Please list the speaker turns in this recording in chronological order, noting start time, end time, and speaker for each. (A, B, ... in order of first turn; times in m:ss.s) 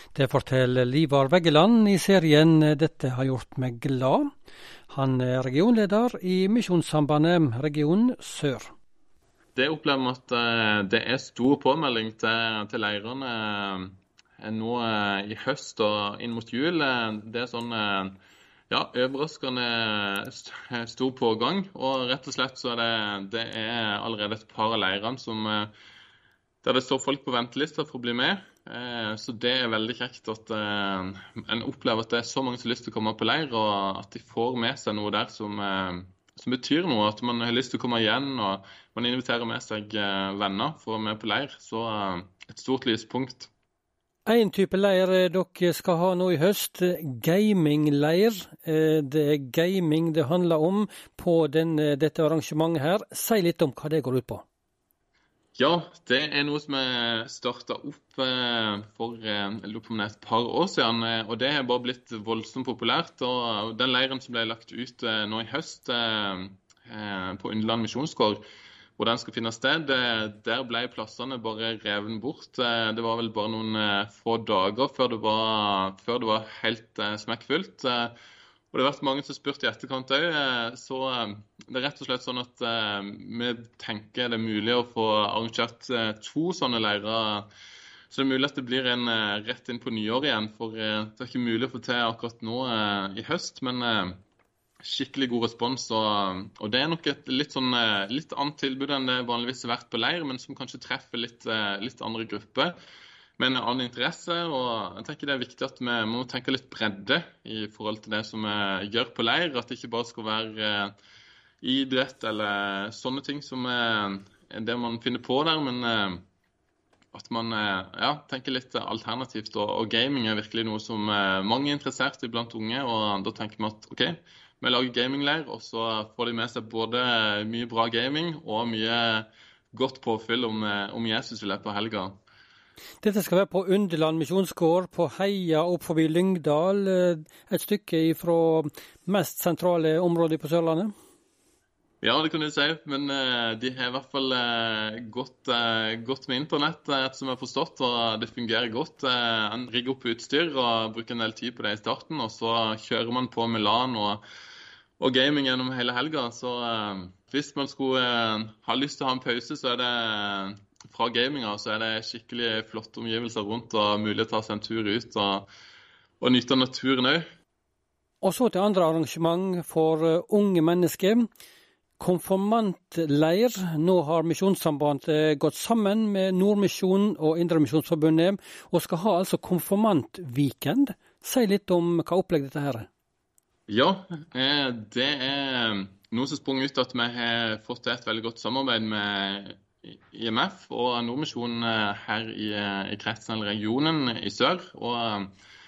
0:00.1-0:04.3 A
0:04.9-0:08.7 A
0:09.6-0:18.2 B
0:18.7-0:25.7 B
0:26.6-0:43.5 B
0:44.3-0:54.4 A
0:55.6-1:08.4 B
1:09.0-1:18.2 B
1:18.7-1:27.5 B
1:28.1-1:34.2 B
1:34.8-1:42.8 B
1:43.4-1:50.9 B
1:51.6-1:56.2 B
1:57.1-2:12.2 B
2:13.0-2:20.9 A
2:22.0-2:34.2 B
2:35.0-2:45.5 B
2:46.2-2:47.2 B
2:48.2-2:51.3 A
2:52.0-3:02.9 A
3:03.7-3:15.3 B